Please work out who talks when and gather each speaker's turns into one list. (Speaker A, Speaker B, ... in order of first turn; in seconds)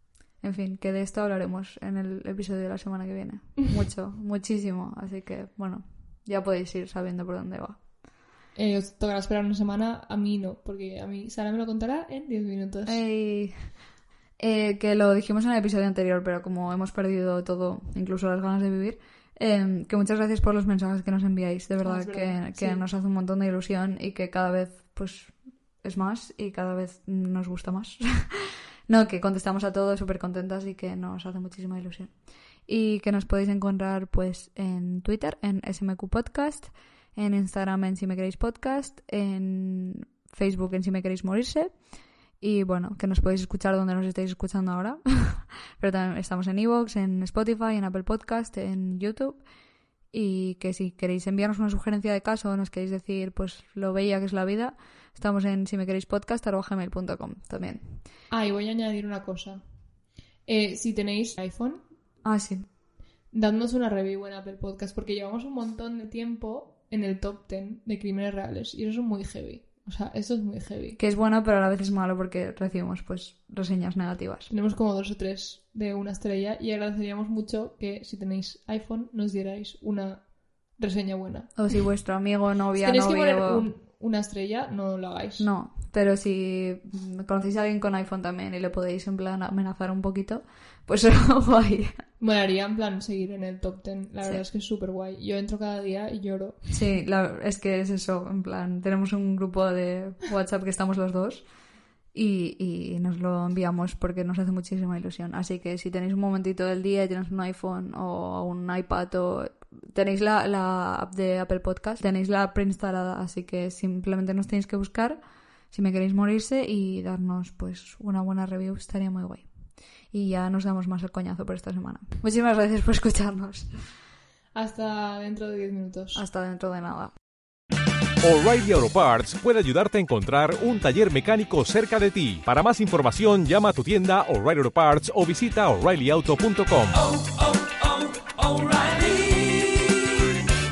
Speaker A: 0.4-7.8, 12.9-13.8, 14.4-41.9, 42.4-49.5, 50.1-58.0, 62.2-62.7, 71.0-74.5, 81.5-83.7, 85.4-92.0, 96.7-101.5, 102.1-115.2, 115.7-123.8, 126.1-127.1
Speaker B: 8.6-13.0, 21.8-22.8, 58.3-59.6, 60.5-61.8, 63.3-71.0, 74.5-81.8, 82.8-85.5, 92.2-96.7, 124.5-126.2
Speaker C: 128.2-140.1